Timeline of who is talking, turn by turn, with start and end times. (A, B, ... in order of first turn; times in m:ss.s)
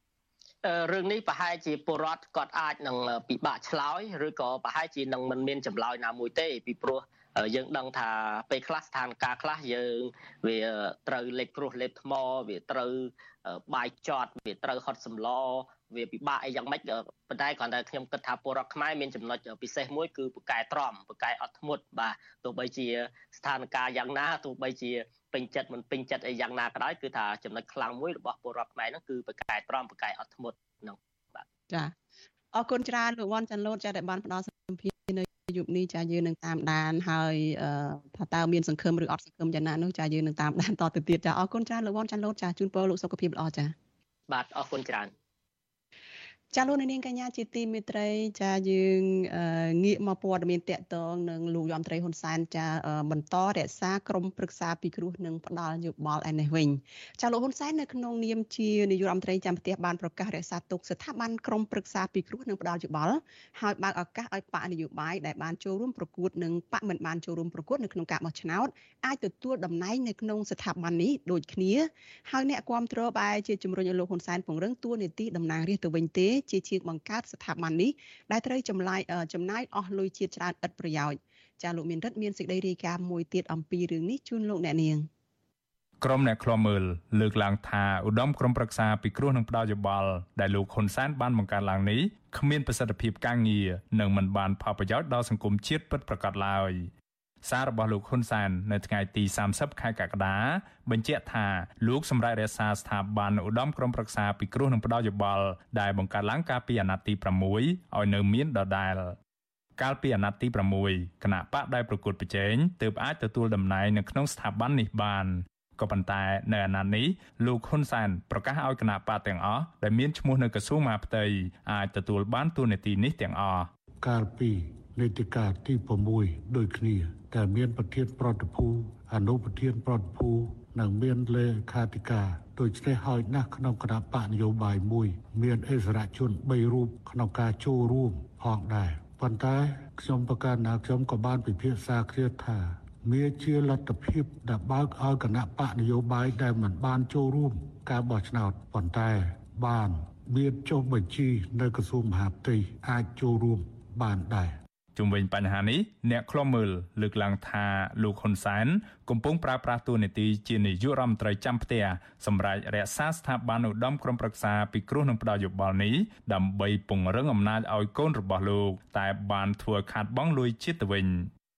0:00.6-0:31.4 A
0:31.7-0:32.0 B
0:32.5-0:43.7 B
0:44.3-0:45.1 A
0:46.5-1:25.1 B
1:26.0-1:36.9 C
1:37.4-1:49.2 C
1:49.8-2:03.7 C
2:04.0-2:34.6 D
2:35.0-2:51.3 C